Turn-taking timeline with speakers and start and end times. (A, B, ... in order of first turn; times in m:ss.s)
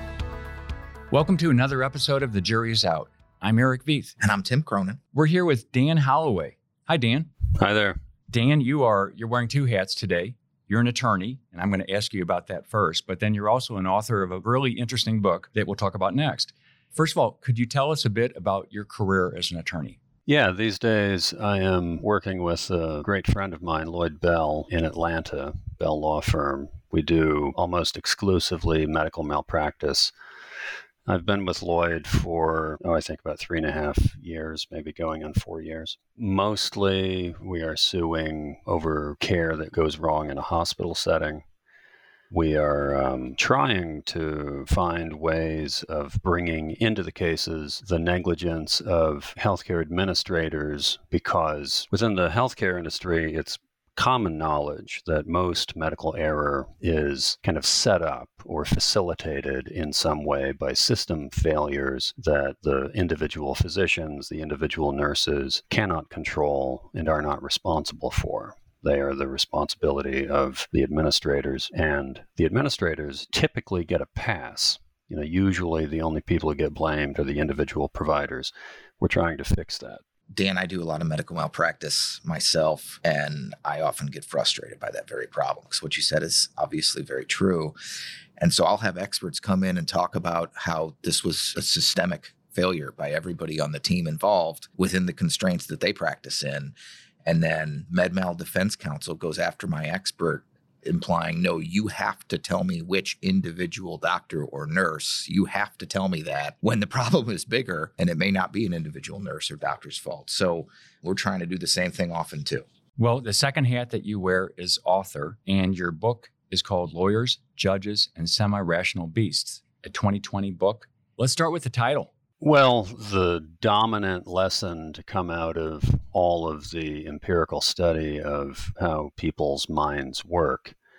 0:01.1-0:04.1 A
0:04.2-0:05.0 B
0:05.1-0:07.3 A
0:07.6-0:08.0 C
0:08.3-0:20.0 A
0:20.3-0:30.1 C
0:31.0-0:41.4 C
0:42.3-1:20.0 C
1:20.3-1:27.7 B
1:28.4-1:36.7 B
1:37.2-1:52.6 B
1:53.0-2:02.1 A
2:02.4-2:10.7 C